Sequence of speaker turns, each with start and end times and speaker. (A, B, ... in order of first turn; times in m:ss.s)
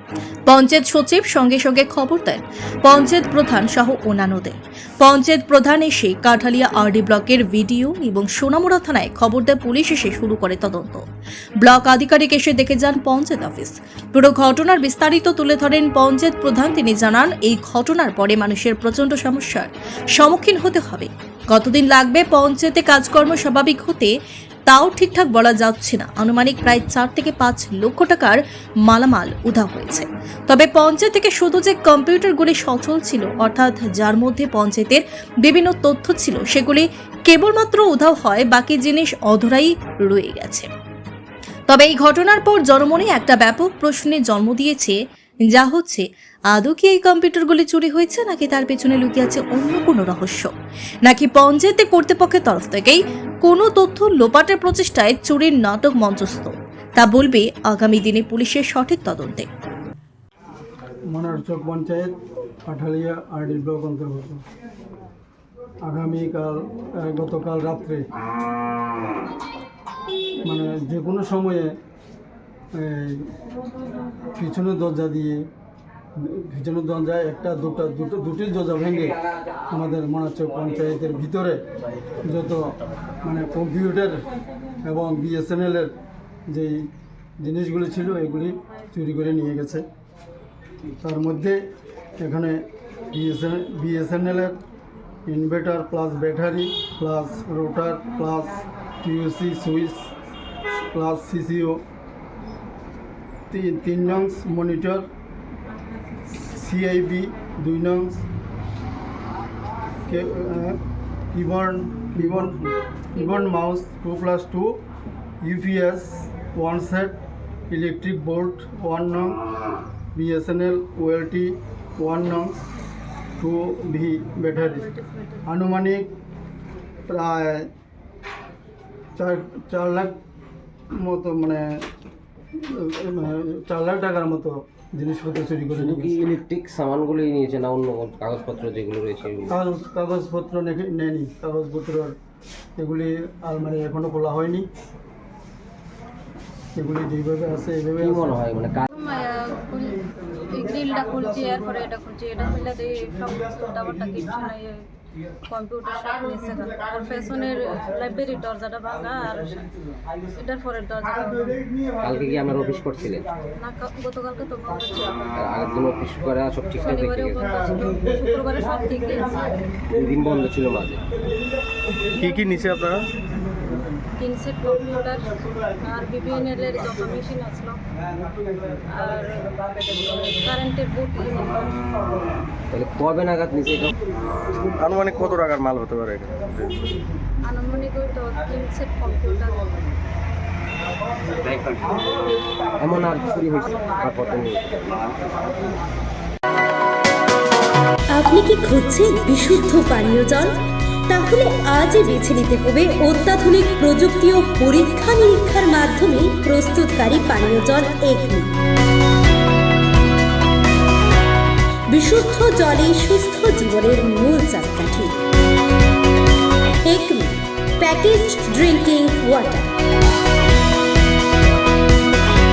0:00.5-0:11.0 A
0:11.6-0:24.1 A
0:24.7-0:40.7 A
0:41.7-0:50.5 A
0:51.0-0:59.5 A
1:01.1-1:04.4 B
1:05.8-1:08.0 B
1:10.4-1:11.7 B
1:12.7-1:13.3 B
1:14.3-1:15.4 B
1:16.2-1:21.6 B
1:22.2-1:24.2 B
1:24.8-1:25.9 B
1:26.5-1:26.9 B
1:27.4-1:29.8 B
1:31.0-1:31.6 B
1:32.2-1:34.6 B
1:35.3-1:40.1 B
1:40.9-1:41.8 B
1:43.5-1:45.1 B
1:46.3-1:48.2 B
1:50.0-1:50.8 B
1:51.3-1:54.8 B
1:55.4-1:57.2 B
1:57.7-1:59.4 B
2:00.1-2:02.5 B
2:03.4-2:04.9 B
2:05.0-2:05.4 C
2:05.4-2:06.1 B
2:07.1-2:07.7 B
2:09.2-2:10.2 B
2:10.9-2:11.8 B
2:12.6-2:16.1 B
2:15.8-2:19.5 D
2:19.5-2:22.2 B
2:22.8-2:24.7 B
2:26.7-2:28.4 B
2:28.0-2:28.9 D
2:28.9-2:34.8 C
2:35.5-2:39.7 C
2:40.4-2:41.7 C
2:42.0-2:43.3 D
2:43.6-2:45.3 C
2:45.3-2:47.4 D
2:46.8-2:49.6 C
2:49.9-2:51.0 D
2:52.1-2:53.1 E
2:54.2-2:57.8 C
2:58.9-3:01.8 C
3:02.7-3:03.9 D
3:04.6-3:06.8 E
3:07.4-3:09.9 C
3:11.4-3:11.8 D
3:12.8-3:15.1 D
3:18.1-3:28.5 F
3:31.9-3:35.2 F
3:36.8-3:39.7 F